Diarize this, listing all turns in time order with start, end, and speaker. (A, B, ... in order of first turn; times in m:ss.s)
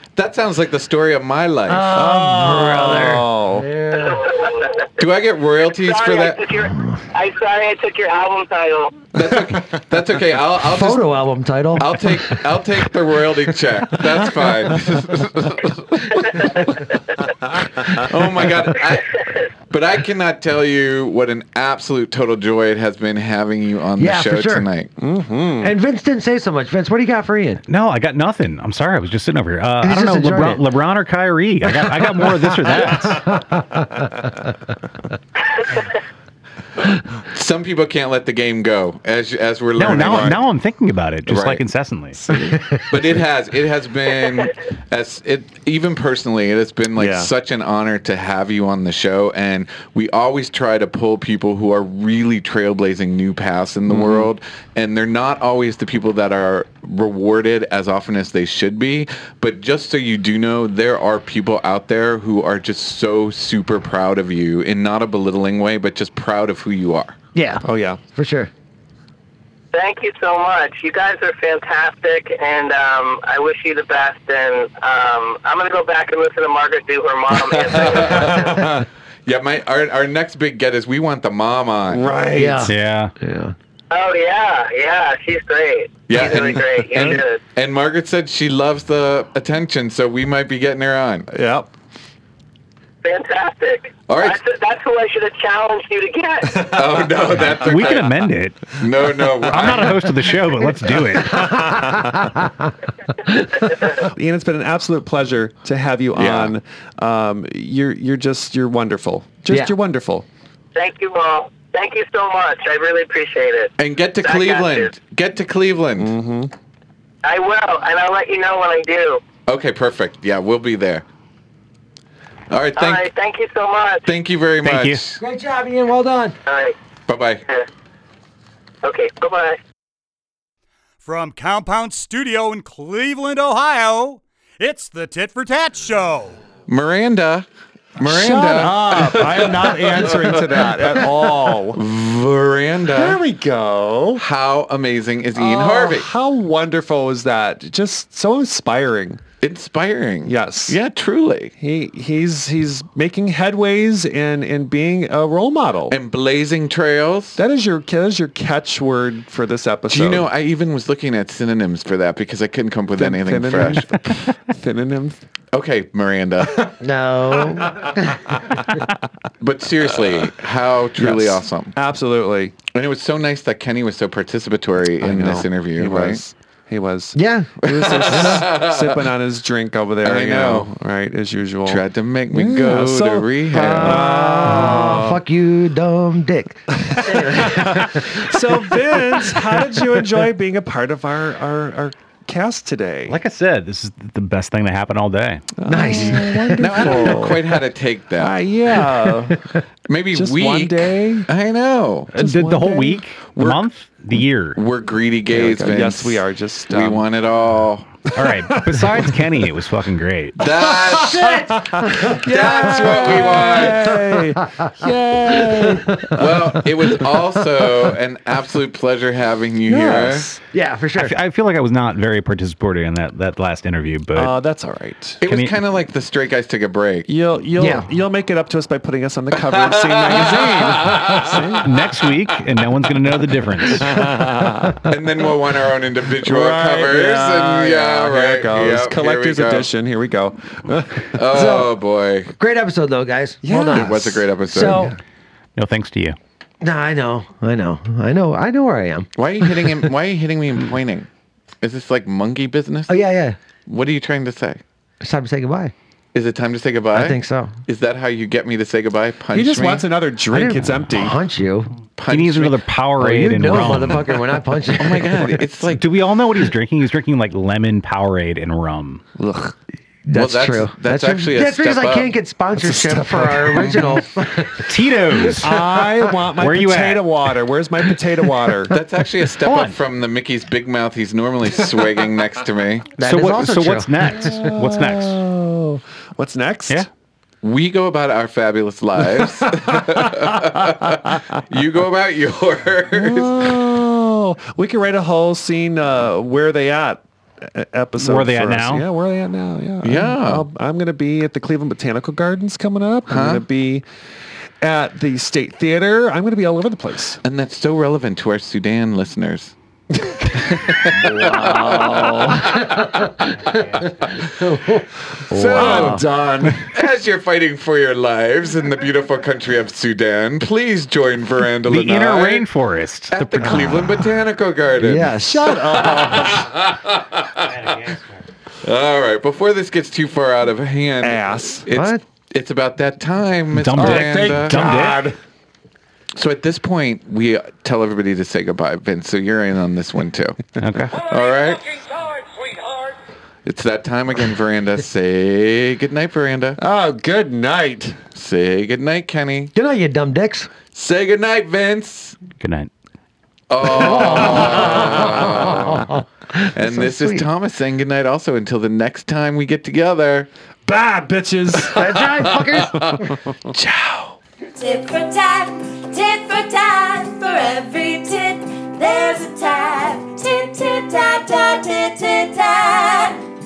0:00.2-0:01.9 A
0:01.7-0:04.2 B
0:01.9-0:03.7 C
0:03.9-0:05.0 D
0:05.0-0:06.5 A
0:05.7-0:09.0 D
0:09.1-0:11.0 A
0:10.7-0:12.5 B
0:11.8-0:16.6 A
0:17.9-0:24.9 A
0:24.0-0:24.7 B
0:25.0-0:25.7 C
0:25.6-0:27.6 B
0:27.7-0:33.5 E
0:29.8-0:30.6 B
0:33.0-0:34.0 B
0:37.2-0:40.4 A
0:39.8-0:42.8 E
0:39.8-0:40.4 C
0:41.3-0:41.6 A
0:42.9-1:07.2 A
0:47.0-0:47.3 C
0:53.9-0:54.3 C
1:07.3-1:08.5 B
1:07.6-1:08.0 C
1:09.7-1:18.6 D
1:17.4-1:18.5 A
1:18.2-1:18.9 C
1:19.3-1:22.2 A
1:21.9-1:22.7 C
1:22.4-1:23.6 B
1:22.7-1:23.1 E
1:23.9-1:27.4 D
1:26.1-1:31.3 A
1:26.7-1:27.2 C
1:31.3-1:31.7 C
1:33.0-1:36.7 D
1:34.1-1:34.4 A
1:36.6-1:37.5 C
1:36.7-1:38.2 A
1:37.5-1:38.8 E
1:38.8-1:40.1 A
1:39.4-1:41.7 E
1:40.9-1:42.4 C
1:41.4-1:42.7 B
1:43.3-1:44.0 D
1:43.9-1:50.3 C
1:46.1-1:46.5 A
1:49.5-1:49.7 B
1:50.8-1:54.9 D
1:53.8-1:56.2 A
1:56.0-1:56.5 C
1:57.2-1:59.2 D
1:59.5-2:01.0 A
2:02.5-2:03.1 A
2:02.8-2:04.1 D
2:04.1-2:05.2 A
2:04.6-2:05.0 E
2:05.2-2:06.4 B
2:06.5-2:06.8 D
2:07.1-2:07.4 A
2:08.8-2:09.6 D
2:11.0-2:16.4 F
2:16.7-2:20.6 A
2:18.0-2:21.8 C
2:21.7-2:23.2 A
2:23.0-2:24.2 C
2:24.2-2:26.1 A
2:25.4-2:29.2 C
2:29.4-2:31.5 A
2:30.2-2:30.8 C
2:31.6-2:36.0 C
2:35.9-2:37.4 A
2:37.4-2:40.3 C
2:39.9-2:44.2 A
2:43.0-2:45.2 C
2:45.5-2:46.7 A
2:46.8-2:48.8 B
2:49.4-2:51.8 A
2:51.0-2:52.6 C
2:52.7-2:56.2 A
2:55.0-3:05.2 C
2:57.1-2:57.5 B
2:57.6-2:59.0 A
3:00.0-3:00.7 A
3:01.6-3:04.0 A
3:03.5-3:09.0 B
3:06.8-3:13.2 C
3:13.1-3:15.4 E
3:15.6-3:17.6 C
3:15.7-3:17.0 B
3:16.6-3:18.4 A
3:18.2-3:19.5 C
3:19.9-3:22.1 A
3:20.1-3:21.3 C
3:22.1-3:24.6 E
3:22.2-3:23.6 C
3:22.4-3:23.0 B
3:24.6-3:27.9 A
3:25.3-3:27.0 C
3:28.2-3:29.1 C
3:28.2-3:30.4 E
3:30.4-3:31.5 A
3:30.8-3:36.3 C
3:31.0-3:36.1 B
3:32.2-3:34.0 A
3:36.1-3:40.4 A
3:39.7-3:41.2 B
3:41.0-3:44.4 E
3:44.2-3:45.2 C
3:45.2-3:47.1 A
3:45.3-3:45.5 E
3:47.1-3:51.9 C
3:47.6-3:47.9 B
3:49.6-3:51.6 A
3:51.6-3:54.0 E
3:53.7-3:54.8 C
3:54.8-3:59.7 A
3:56.2-4:01.2 C
4:01.1-4:02.3 A
4:01.3-4:01.8 B
4:02.4-4:04.9 B
4:03.4-4:05.0 C
4:03.7-4:04.9 A
4:05.6-4:06.2 E
4:06.6-4:09.5 B
4:09.2-4:11.1 A
4:11.6-4:13.0 A
4:12.9-4:13.4 B
4:13.7-4:14.6 A
4:15.0-4:15.7 B
4:16.1-4:19.9 A
4:16.9-4:17.6 B
4:19.3-4:21.2 C
4:20.3-4:21.8 B
4:22.0-4:22.6 A
4:22.1-4:24.2 E
4:23.0-4:25.3 B
4:24.8-4:26.0 A
4:25.8-4:29.0 E
4:29.2-4:29.6 C
4:30.1-4:35.8 B
4:30.1-4:32.1 A
4:32.6-4:34.0 C
4:34.6-4:35.6 E
4:35.4-4:38.8 C
4:36.4-4:37.0 E
4:38.7-4:42.9 A
4:39.4-4:39.8 E
4:43.0-4:44.1 B
4:43.0-4:45.2 E
4:44.0-4:46.9 C
4:47.4-4:53.6 A
4:49.8-4:50.2 C
4:52.9-5:03.8 C
4:58.0-4:58.9 E
4:59.8-5:00.5 A
5:03.1-5:03.4 A
5:04.6-5:07.2 C
5:07.2-5:09.5 A
5:10.0-5:12.5 C
5:10.6-5:14.2 A
5:13.5-5:14.0 E
5:14.2-5:16.1 B
5:15.3-5:16.1 A
5:15.6-5:16.7 C
5:16.6-5:22.5 A
5:21.7-5:24.1 E
5:23.1-5:25.2 A
5:24.8-5:25.5 B
5:25.2-5:26.5 C
5:25.8-5:27.9 A
5:27.5-5:28.2 E
5:28.6-5:34.8 A
5:31.0-5:31.7 C
5:31.7-5:32.0 B
5:33.6-5:35.1 E
5:33.8-5:35.2 C
5:36.2-5:41.9 A
5:40.6-5:41.0 E
5:43.4-5:46.6 A
5:46.6-5:48.0 C
5:48.2-5:49.5 A
5:49.6-5:50.5 B
5:50.7-5:52.2 A
5:52.3-5:52.7 E
5:53.5-5:55.9 A
5:53.8-5:55.4 C
5:53.9-5:57.3 B
5:56.5-6:00.3 A
6:00.7-6:03.0 C
6:01.7-6:03.1 B
6:02.7-6:04.2 A
6:04.6-6:13.2 G